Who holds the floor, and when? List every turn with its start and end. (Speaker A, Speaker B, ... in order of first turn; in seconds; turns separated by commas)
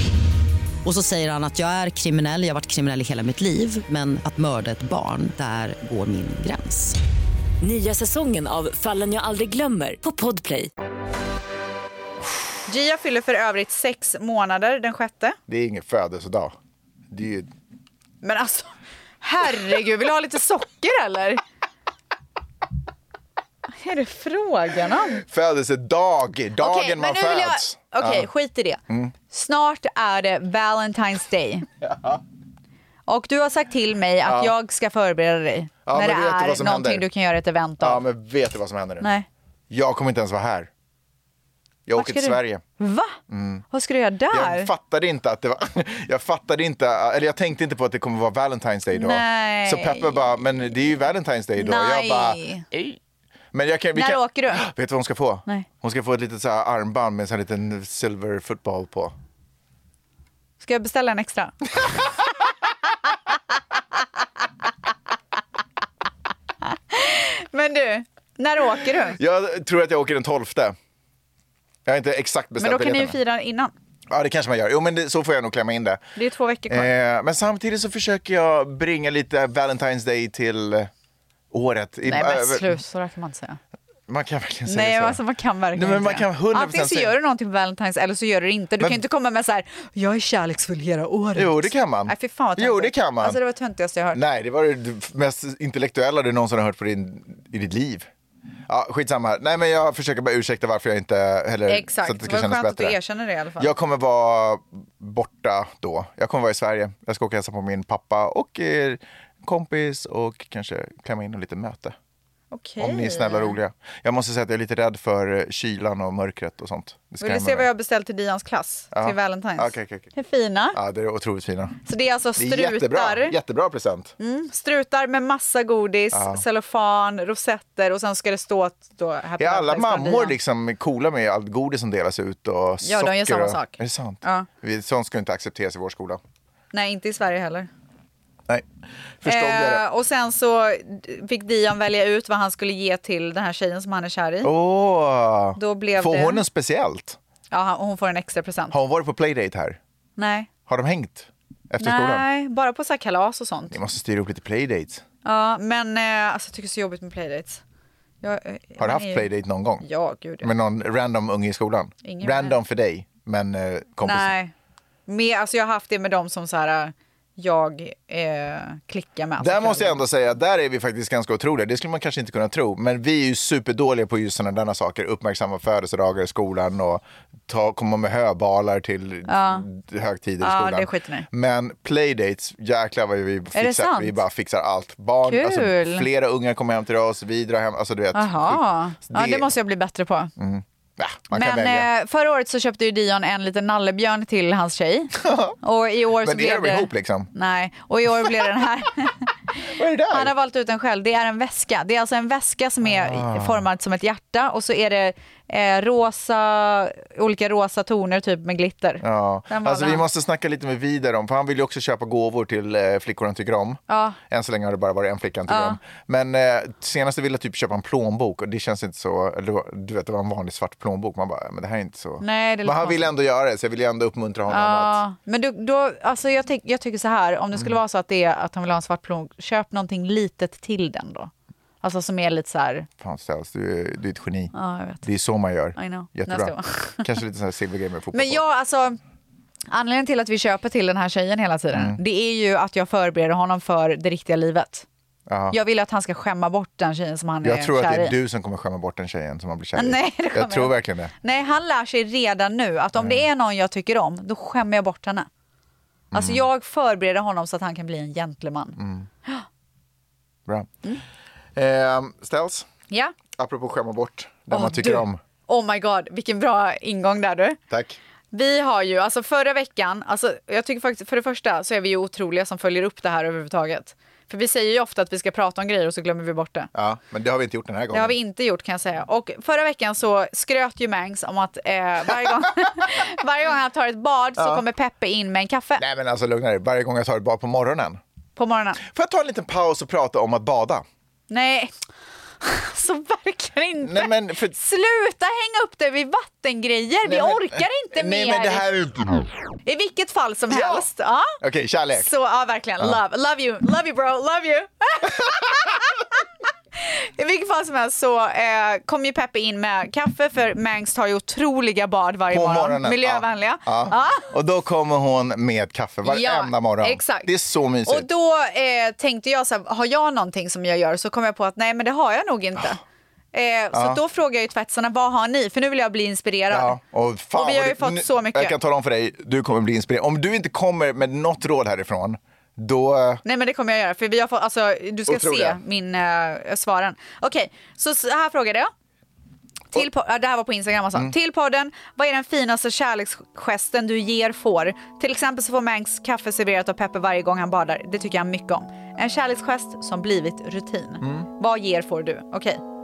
Speaker A: 0.8-7.0, Speaker B: 7.6-10.7, Speaker C: 12.7-15.4, Speaker D: 15.5-16.5, Speaker D: 17.1-17.5, Speaker C: 18.2-21.4, Speaker C: 23.8-25.2, Speaker D: 25.2-28.2, Speaker C: 26.6-31.7, Speaker D: 28.9-29.1, Speaker D: 31.8-32.2, Speaker C: 33.1-38.0, Speaker D: 34.2-34.5, Speaker D: 35.9-37.0, Speaker D: 37.8-39.1, Speaker C: 39.0-39.3, Speaker D: 39.7-40.7, Speaker D: 41.9-42.6, Speaker C: 41.9-43.2, Speaker D: 43.3-43.6, Speaker C: 43.7-44.7, Speaker D: 44.3-53.0, Speaker C: 48.9-50.3, Speaker C: 51.6-52.6, Speaker D: 53.5-59.1, Speaker C: 53.9-54.6, Speaker C: 60.6-61.7, Speaker C: 66.6-69.2, Speaker D: 69.1-70.8, Speaker D: 71.8-73.2, Speaker C: 72.6-73.7, Speaker D: 74.1-76.0, Speaker C: 76.2-76.9, Speaker D: 76.7-80.9, Speaker D: 81.5-82.8, Speaker C: 82.0-83.6, Speaker D: 84.1-85.2, Speaker C: 84.7-94.2, Speaker D: 85.7-87.1, Speaker D: 91.3-93.4, Speaker D: 94.1-98.1, Speaker D: 98.7-103.0, Speaker C: 101.7-103.7, Speaker D: 103.6-111.9, Speaker C: 112.5-113.5, Speaker D: 112.8-117.7, Speaker C: 117.2-120.8, Speaker D: 118.9-120.1, Speaker D: 120.7-121.8, Speaker C: 121.8-123.4, Speaker D: 122.4-124.1, Speaker C: 124.2-130.3, Speaker D: 126.1-126.4, Speaker D: 129.4-136.2, Speaker C: 132.8-134.5, Speaker C: 136.7-137.7, Speaker D: 139.2-139.8, Speaker C: 139.2-144.5, Speaker D: 144.4-147.2, Speaker C: 145.6-146.4, Speaker C: 147.5-148.7, Speaker D: 148.7-149.8, Speaker C: 150.2-150.5, Speaker D: 150.7-152.2, Speaker C: 151.8-153.8, Speaker D: 153.7-155.0, Speaker C: 155.2-157.6, Speaker C: 158.2-159.3, Speaker D: 158.8-159.8, Speaker C: 159.8-160.5, Speaker D: 160.4-164.3, Speaker C: 162.0-162.6, Speaker C: 164.0-164.5, Speaker C: 165.1-170.0, Speaker D: 169.4-189.5, Speaker C: 179.3-179.7, Speaker C: 180.4-181.3, Speaker C: 183.5-184.2, Speaker C: 185.2-186.1, Speaker C: 188.1-190.3, Speaker D: 190.4-191.9, Speaker C: 191.3-210.0, Speaker D: 195.2-195.6, Speaker D: 196.2-197.3, Speaker D: 199.7-200.3, Speaker D: 202.8-203.7, Speaker D: 209.0-225.0, Speaker C: 213.9-214.2, Speaker C: 215.5-215.8, Speaker C: 222.2-223.1, Speaker C: 224.5-231.3, Speaker C: 231.8-232.9, Speaker D: 233.0-234.5, Speaker C: 234.5-235.0, Speaker D: 235.0-238.4, Speaker C: 235.8-237.1, Speaker C: 238.1-239.0, Speaker C: 239.7-244.8, Speaker D: 241.7-242.0, Speaker D: 245.3-245.6, Speaker C: 245.5-248.1, Speaker D: 247.4-251.1, Speaker C: 249.8-255.3, Speaker D: 256.1-256.4, Speaker C: 256.1-259.4, Speaker D: 258.8-259.1, Speaker D: 261.6-262.7, Speaker C: 262.9-263.1, Speaker D: 263.4-265.2, Speaker C: 264.5-267.6, Speaker D: 267.7-268.0, Speaker C: 268.3-276.7, Speaker D: 276.7-278.1, Speaker C: 277.9-285.8, Speaker D: 284.4-284.6, Speaker D: 285.8-288.0, Speaker C: 288.4-288.8, Speaker D: 288.8-290.8, Speaker C: 291.3-291.7, Speaker C: 292.4-298.7, Speaker D: 293.8-294.6, Speaker D: 297.0-299.2, Speaker C: 299.6-301.4, Speaker D: 300.5-300.8, Speaker D: 301.4-302.1, Speaker C: 301.9-306.1, Speaker C: 306.8-314.3, Speaker D: 312.3-318.1, Speaker C: 316.0-317.3, Speaker C: 317.8-322.8, Speaker C: 323.3-326.8, Speaker D: 323.7-324.0, Speaker D: 326.5-333.2, Speaker C: 327.3-328.6, Speaker C: 333.2-338.7, Speaker D: 335.1-335.6, Speaker C: 339.7-352.6, Speaker D: 351.0-351.3